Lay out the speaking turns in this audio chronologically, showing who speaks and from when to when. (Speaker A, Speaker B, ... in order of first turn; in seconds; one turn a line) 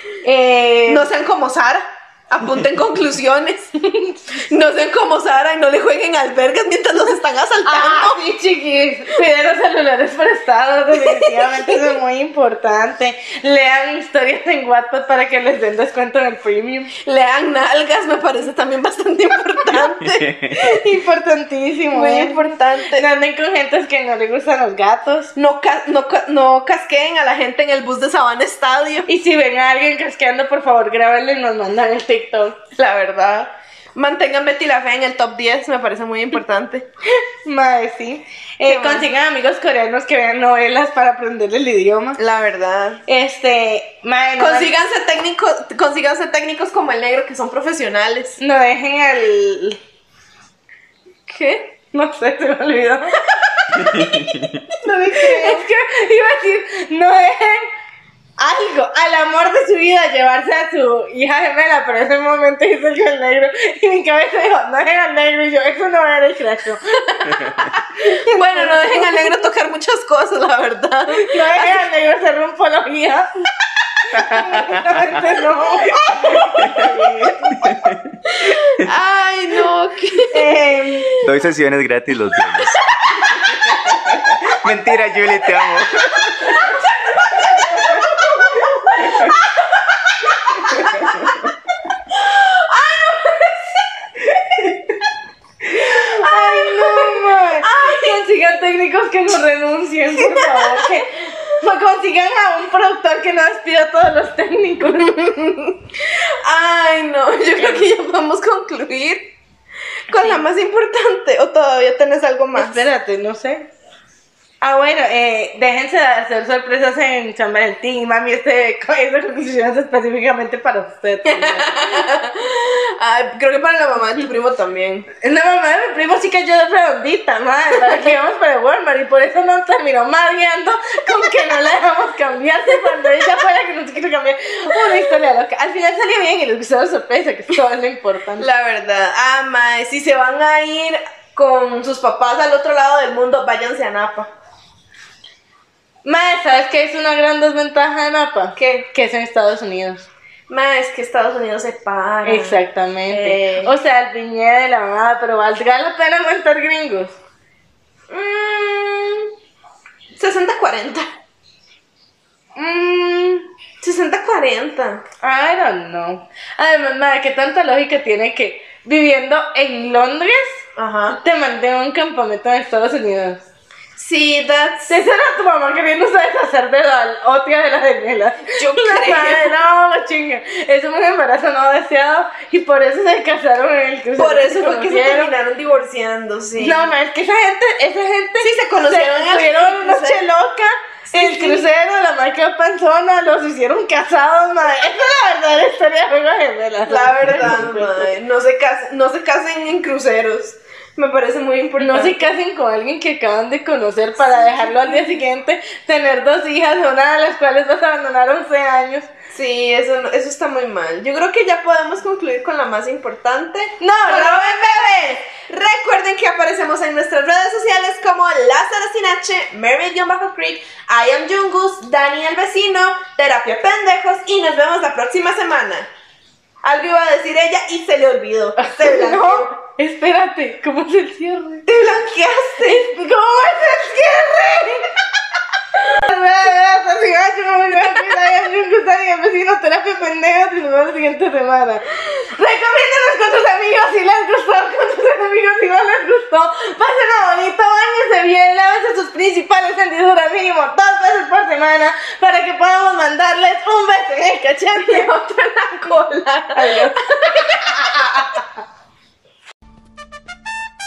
Speaker A: 0.2-1.1
Speaker B: 0.9-3.7
Speaker A: 3.8-4.2
Speaker B: 4.5-8.2
Speaker A: 7.7-16.9
Speaker B: 10.9-12.0
Speaker B: 17.0-20.3
Speaker C: 20.0-20.6
Speaker A: 20.5-25.3
Speaker B: 21.9-23.1
Speaker B: 25.4-29.1
Speaker A: 29.1-32.6
Speaker B: 32.8-36.9
Speaker A: 37.4-42.2
Speaker B: 38.6-39.1
Speaker B: 42.2-43.0
Speaker A: 43.1-44.8
Speaker B: 44.4-48.4
Speaker A: 48.4-49.8
Speaker B: 51.3-51.8
Speaker A: 51.9-53.2
Speaker B: 53.3-54.0
Speaker C: 53.8-54.6
Speaker B: 54.8-55.7
Speaker A: 55.1-57.7
Speaker A: 58.4-67.0
Speaker B: 67.1-71.8
Speaker A: 68.0-69.4
Speaker A: 71.2-73.4
Speaker A: 74.1-77.7
Speaker B: 75.9-76.9
Speaker C: 77.6-78.1
Speaker B: 78.3-80.5
Speaker A: 80.3-81.1
Speaker B: 81.0-81.3
Speaker C: 81.2-82.8
Speaker B: 82.9-83.9
Speaker C: 83.9-86.7
Speaker B: 85.5-91.5
Speaker C: 89.0-89.3
Speaker B: 92.1-94.8
Speaker B: 95.7-98.2
Speaker A: 95.7-105.7
Speaker B: 100.2-101.0
Speaker B: 106.2-109.3
Speaker B: 110.1-112.8
Speaker A: 110.1-110.4
Speaker A: 112.5-113.7
Speaker A: 114.6-122.1
Speaker B: 121.3-125.1
Speaker A: 125.2-138.5
Speaker B: 138.4-144.3
Speaker A: 146.1-150.1
Speaker B: 148.6-148.9
Speaker B: 150.5-153.7
Speaker A: 152.2-157.2
Speaker B: 158.1-159.3
Speaker B: 160.2-161.1
Speaker A: 162.6-163.5
Speaker B: 163.8-165.1
Speaker A: 165.2-173.4
Speaker B: 170.8-171.2
Speaker B: 174.0-174.9
Speaker A: 174.9-185.3
Speaker B: 178.6-179.6
Speaker B: 184.2-186.9
Speaker A: 186.6-198.1
Speaker B: 188.4-190.2
Speaker B: 191.1-191.7
Speaker B: 196.9-202.3
Speaker A: 201.8-209.1
Speaker B: 204.2-205.2
Speaker B: 209.3-225.9
Speaker A: 213.8-214.8
Speaker B: 226.6-229.6
Speaker A: 228.6-231.8
Speaker B: 231.7-232.9
Speaker A: 232.6-234.9
Speaker A: 235.8-255.1
Speaker B: 254.8-258.2
Speaker A: 256.6-258.4